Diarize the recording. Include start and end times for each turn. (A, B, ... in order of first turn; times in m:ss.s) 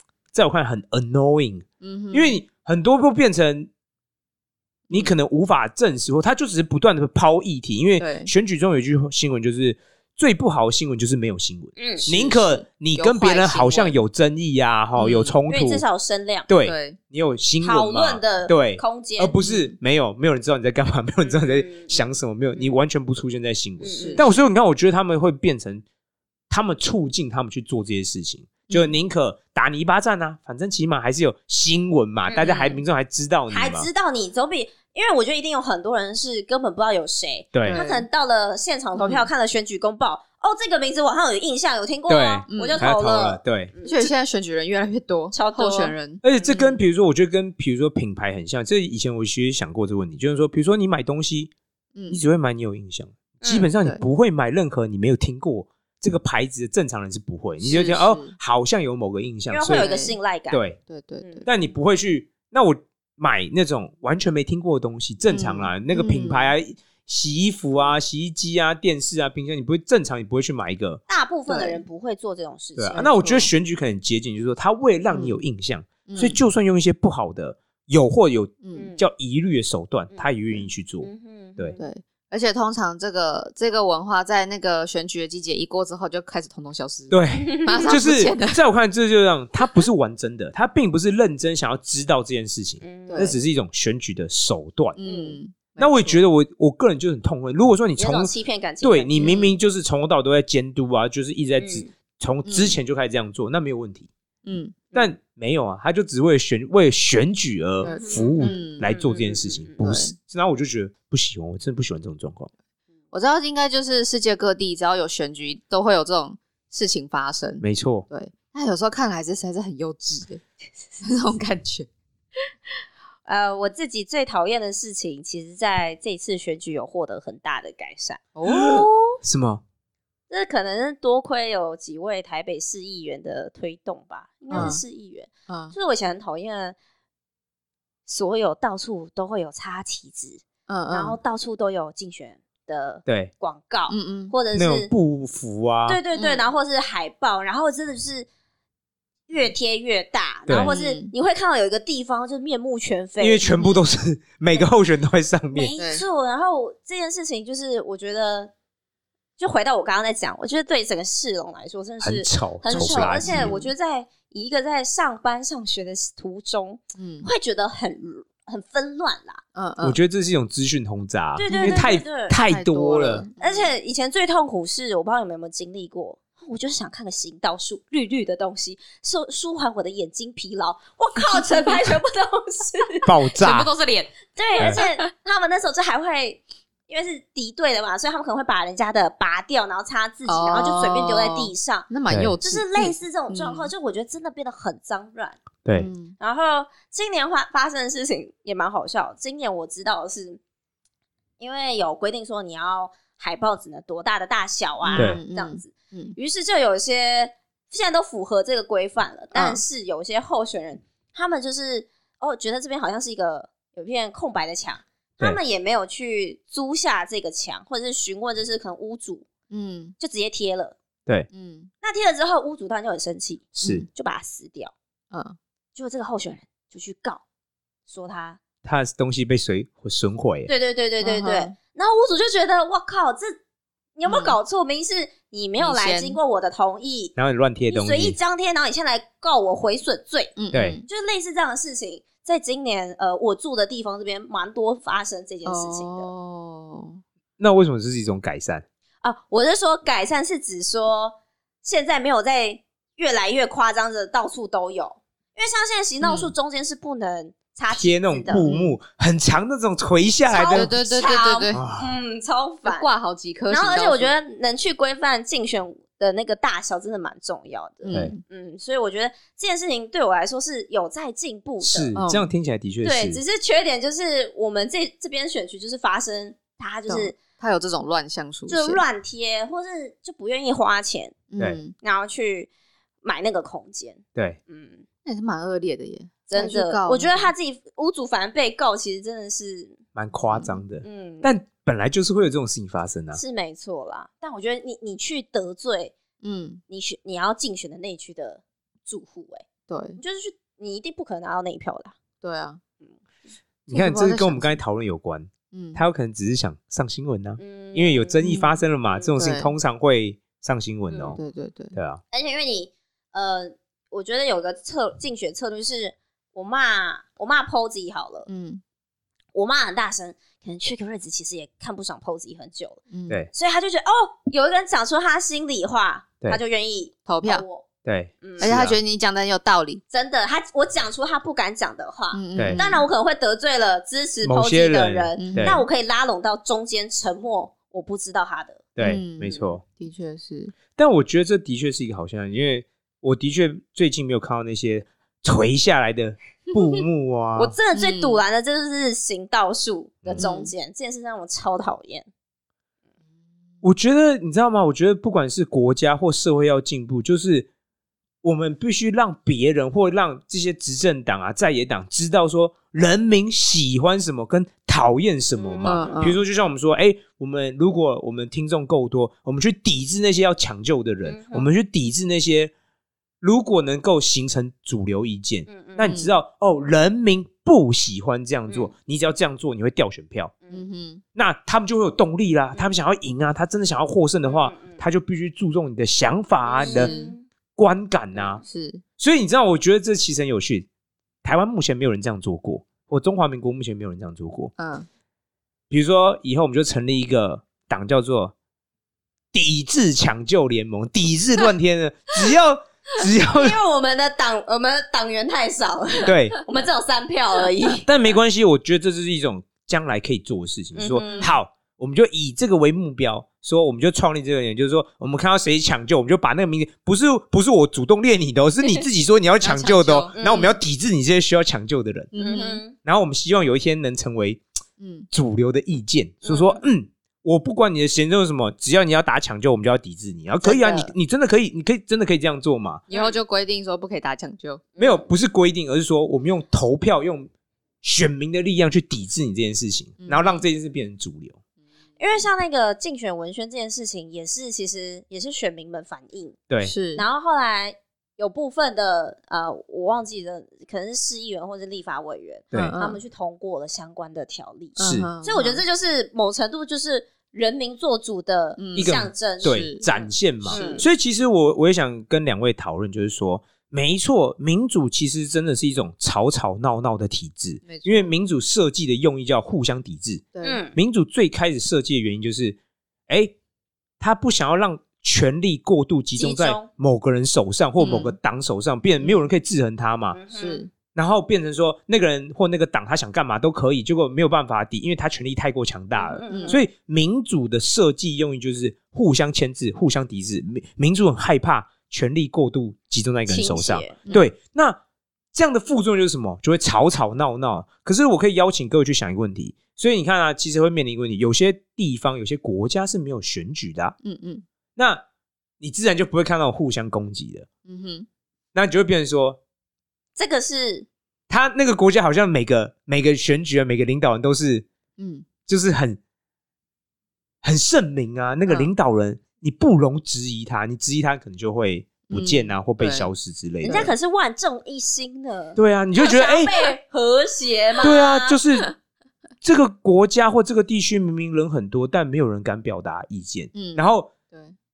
0:00.3-0:03.7 A
0:01.8-0:02.4 B
0:04.9-0:15.8 A
0:08.0-0:08.3 B
0:11.8-0:12.4 C
0:12.0-0:14.0 B
0:15.0-0:15.3 B
0:15.0-0:16.5 C
0:16.5-0:25.8 A
0:16.6-0:17.0 B
0:17.6-0:19.4 C
0:19.4-0:19.7 B
0:21.2-0:22.0 C
0:23.8-0:24.2 C
0:23.9-0:24.4 B
0:26.5-0:33.9 A
0:28.7-0:29.0 B
0:32.3-0:32.8 C
0:33.5-0:44.1 C
0:37.5-0:37.8 A
0:37.7-0:38.1 B
0:39.0-0:39.3 B
0:42.1-0:43.7 A
0:42.5-0:42.9 B
0:43.8-0:46.8 B
0:45.3-0:46.6 C
0:46.2-0:51.5 A
0:52.0-0:52.2 B
0:52.1-0:59.9 A
0:53.4-0:53.7 C
0:57.6-0:58.4 B
0:57.7-0:58.0 C
0:59.5-1:00.6 C
0:59.7-1:00.2 B
1:00.5-1:00.8 A
1:00.9-1:01.5 B
1:01.5-1:11.0 A
1:05.3-1:06.5 B
1:11.1-1:13.0 C
1:11.5-1:11.8 B
1:12.8-1:21.8 A
1:12.9-1:13.5 B
1:15.1-1:15.4 B
1:16.1-1:16.4 B
1:18.6-1:18.9 B
1:18.7-1:19.0 C
1:21.0-1:21.8 C
1:21.8-1:28.6 B
1:27.1-1:35.0 A
1:27.3-1:28.0 C
1:32.8-1:33.4 C
1:33.1-1:33.4 B
1:35.0-1:36.2 B
1:35.0-1:35.4 C
1:35.8-1:44.1 A
1:38.0-1:39.5 C
1:39.2-1:39.5 B
1:41.6-1:41.9 C
1:42.4-1:42.8 B
1:44.5-1:44.8 B
1:45.0-1:52.5 A
1:47.8-1:48.9 B
1:47.8-1:49.8 C
1:49.8-1:50.2 B
1:53.1-2:00.4 B
1:57.6-1:58.1 A
2:01.0-2:01.9 B
2:03.3-2:08.3 C
2:08.4-2:09.2 B
2:08.5-2:09.6 A
2:10.3-2:16.8 C
2:14.5-2:14.8 B
2:15.5-2:15.7 B
2:18.1-2:24.9 C
2:20.7-2:21.2 B
2:23.1-2:23.3 A
2:23.9-2:24.3 B
2:24.5-2:26.0 A
2:25.9-2:28.3 C
2:26.1-2:26.4 B
2:29.3-2:33.6 C
2:30.5-2:30.7 A
2:30.6-2:31.1 B
2:33.2-2:35.7 A
2:33.5-2:33.8 B
2:35.5-2:38.5 C
2:35.8-2:36.0 B
2:39.4-2:49.4 C
2:42.0-2:43.6 A
2:42.7-2:43.7 B
2:47.0-2:47.3 B
2:49.6-2:50.0 B
2:49.8-2:53.3 A
2:51.4-2:52.4 C
2:51.5-2:51.9 B
2:52.5-2:53.7 B
2:53.4-3:03.1 C
3:01.3-3:01.8 B
3:03.1-3:03.7 A
3:03.4-3:05.1 B
3:04.4-3:11.9 C
3:10.3-3:13.7 B
3:12.1-3:12.3 A
3:12.4-3:15.4 C
3:15.6-3:15.9 A
3:15.8-3:16.2 B
3:16.2-3:20.4 C
3:21.4-3:39.3 C
3:24.8-3:26.2 B
3:25.0-3:25.2 A
3:29.3-3:29.6 B
3:39.5-3:40.0 B
3:40.0-3:40.8 C
3:41.3-3:41.7 B
3:41.8-3:44.7 C
3:43.6-3:43.9 A
3:43.6-3:43.9 B
3:45.1-3:45.4 B
3:45.8-3:47.2 C
3:47.9-3:48.4 C
3:48.6-3:50.5 A
3:50.5-3:53.4 C
3:51.0-3:51.5 B
3:54.0-3:57.2 C
3:54.1-3:54.4 B
3:55.6-3:56.2 B
3:57.2-3:58.2 A
3:57.7-4:06.1 C
4:00.4-4:00.9 B
4:00.5-4:00.8 A
4:05.4-4:07.0 B
4:07.4-4:08.6 A
4:09.0-4:18.5 C
4:16.0-4:16.3 B
4:17.7-4:20.8 A
4:18.3-4:18.8 B
4:20.3-4:22.9 C
4:20.5-4:21.6 B
4:21.5-4:22.0 A
4:22.6-4:24.1 B
4:23.5-4:31.9 C
4:27.8-4:28.2 B
4:31.6-4:33.2 A
4:32.0-4:32.3 B
4:32.8-4:37.2 C
4:36.9-4:38.8 B
4:38.5-4:41.2 C
4:41.3-4:41.7 B
4:41.8-4:42.5 C
4:43.0-4:44.8 C
4:45.0-4:47.3 B
4:46.3-4:49.8 C
4:50.0-4:53.2 A
4:50.3-4:50.6 B
4:50.8-4:51.3 C
4:53.1-4:56.0 C
4:56.2-4:56.6 B
4:56.7-4:59.4 C
4:59.7-5:00.0 B
5:00.0-5:02.0 C
5:02.2-5:02.6 B
5:03.7-5:11.2 A
5:03.7-5:04.6 B
5:05.5-5:05.8 B
5:07.4-5:08.2 C
5:08.2-5:08.6 B
5:09.2-5:09.5 B
5:10.9-5:11.2 C
5:11.2-5:11.8 B
5:11.8-5:12.0 A
5:12.1-5:18.3 C
5:18.3-5:18.6 B
5:19.3-5:27.7 C
5:22.9-5:23.2 B
5:27.1-5:27.4 B
5:27.8-5:28.8 A
5:28.2-5:28.6 C
5:28.4-5:29.8 B
5:29.9-5:38.7 C
5:32.1-5:32.9 B
5:32.4-5:32.6 A
5:34.2-5:35.6 A
5:35.2-5:35.6 B
5:38.8-5:39.6 A
5:38.8-5:40.5 B
5:39.3-5:39.5 C
5:40.8-5:47.6 A
5:47.4-5:52.1 C
5:47.7-5:48.2 B
5:50.2-5:50.5 B
5:53.6-5:57.5 A
5:58.2-6:12.5 A
6:05.4-6:06.0 C
6:05.6-6:06.2 B
6:11.0-6:11.5 C
6:13.2-6:20.3 A
6:15.5-6:16.0 C
6:15.8-6:16.2 B
6:20.5-6:21.0 B
6:21.2-6:26.9 A
6:24.3-6:24.8 C
6:26.5-6:27.2 C
6:26.7-6:27.2 B
6:27.6-6:28.4 A
6:28.4-6:28.8 B
6:29.0-6:30.7 A
6:31.2-6:34.5 A
6:34.6-6:34.9 B
6:35.7-6:38.3 A
6:39.3-6:43.6 A
6:43.3-6:47.9 C
6:46.0-6:46.4 A
6:47.9-7:02.1 A
6:50.8-6:51.3 C
6:51.0-6:51.3 B
6:59.4-7:00.2 B
7:00.2-7:00.6 C
7:02.1-7:02.6 B
7:02.2-7:02.8 C
7:02.8-7:04.4 A
7:04.8-7:05.1 B
7:05.1-7:12.8 A
7:06.2-7:06.6 C
7:10.4-7:10.9 C
7:12.9-7:14.6 B
7:12.9-7:13.2 C
7:14.8-7:15.1 C
7:14.8-7:17.3 A
7:17.8-7:21.4 A
7:20.0-7:20.4 B
7:22.0-7:26.4 C
7:26.6-7:27.0 B
7:27.0-7:40.8 C
7:32.5-7:33.0 B
7:34.8-7:35.6 B
7:34.8-7:35.1 A
7:38.6-7:39.9 B
7:38.8-7:53.4 A
7:40.4-7:40.8 B
7:47.7-7:48.1 B
7:50.4-7:50.6 B
7:50.4-7:50.8 C
7:54.0-8:00.2 A
7:56.2-7:56.7 C
7:57.8-7:58.2 B
8:00.1-8:00.6 C
8:00.3-8:00.7 B
8:00.9-8:14.8 A
8:06.0-8:06.6 C
8:06.3-8:06.6 B
8:13.3-8:14.1 C
8:15.3-8:24.0 A
8:24.0-8:24.4 B
8:24.8-8:25.0 A
8:25.6-8:27.5 A
8:27.7-8:28.1 B
8:28.5-8:29.4 A
8:30.2-8:30.9 C
8:31.3-8:34.7 A
8:35.0-8:35.3 B
8:35.5-8:36.0 A
8:37.4-8:43.9 A
8:42.1-8:43.1 B
8:43.6-8:43.9 B
8:43.6-8:48.4 C
8:45.6-8:46.5 A
8:47.8-8:48.7 A
8:49.4-8:54.1 A
8:53.5-8:54.6 B